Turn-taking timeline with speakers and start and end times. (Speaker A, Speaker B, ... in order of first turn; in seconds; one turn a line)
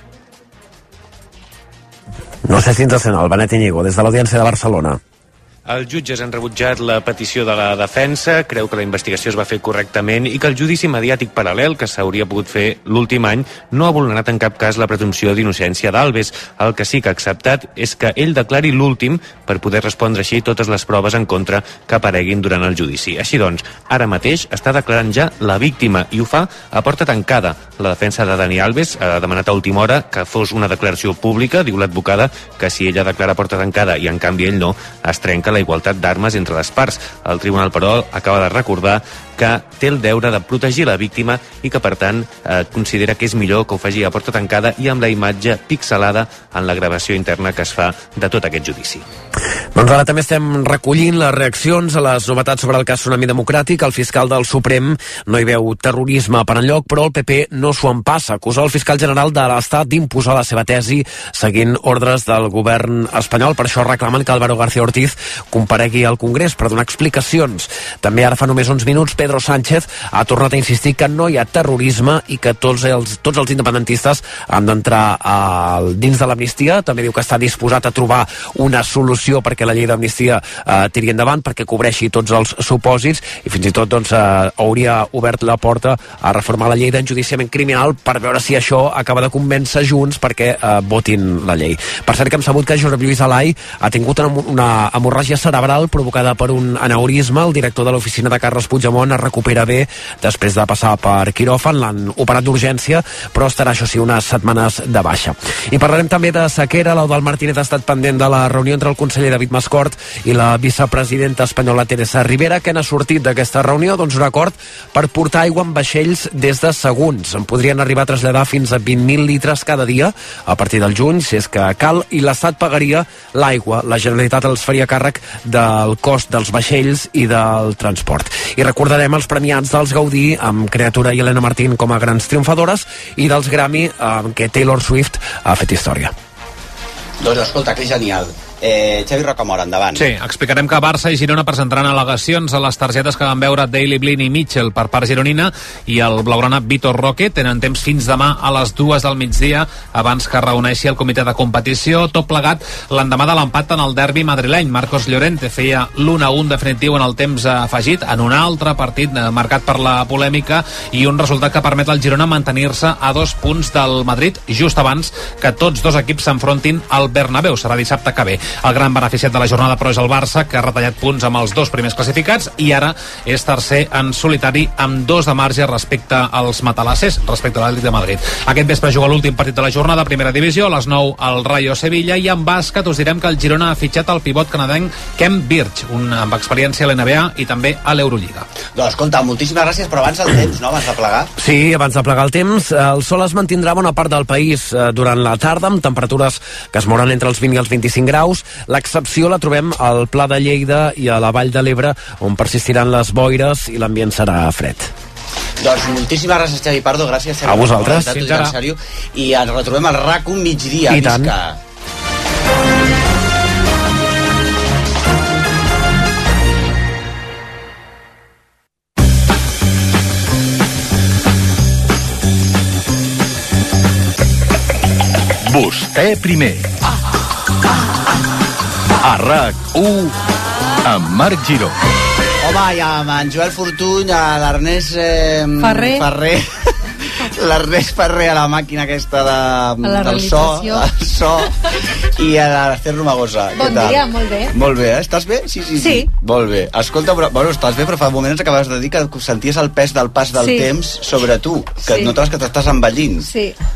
Speaker A: 2.5-5.0
Speaker B: 5.7-49.0
Speaker A: 49.7-136.1
Speaker C: 137.2-140.0
Speaker D: 139.9-188.5
Speaker C: 188.7-191.3
Speaker A: 191.4-204.9
Speaker C: 205.6-211.6
Speaker A: 207.4-208.4
Speaker A: 210.9-211.3
Speaker E: 225.5-226.7
Speaker E: 229.0-230.1
Speaker E: 230.8-231.7
Speaker C: 232.4-253.3
Speaker F: 235.6-236.1
Speaker F: 239.8-240.9
Speaker F: 243.6-244.5
Speaker F: 245.8-246.1
Speaker F: 250.3-250.7
Speaker F: 251.9-252.2
Speaker F: 253.2-253.6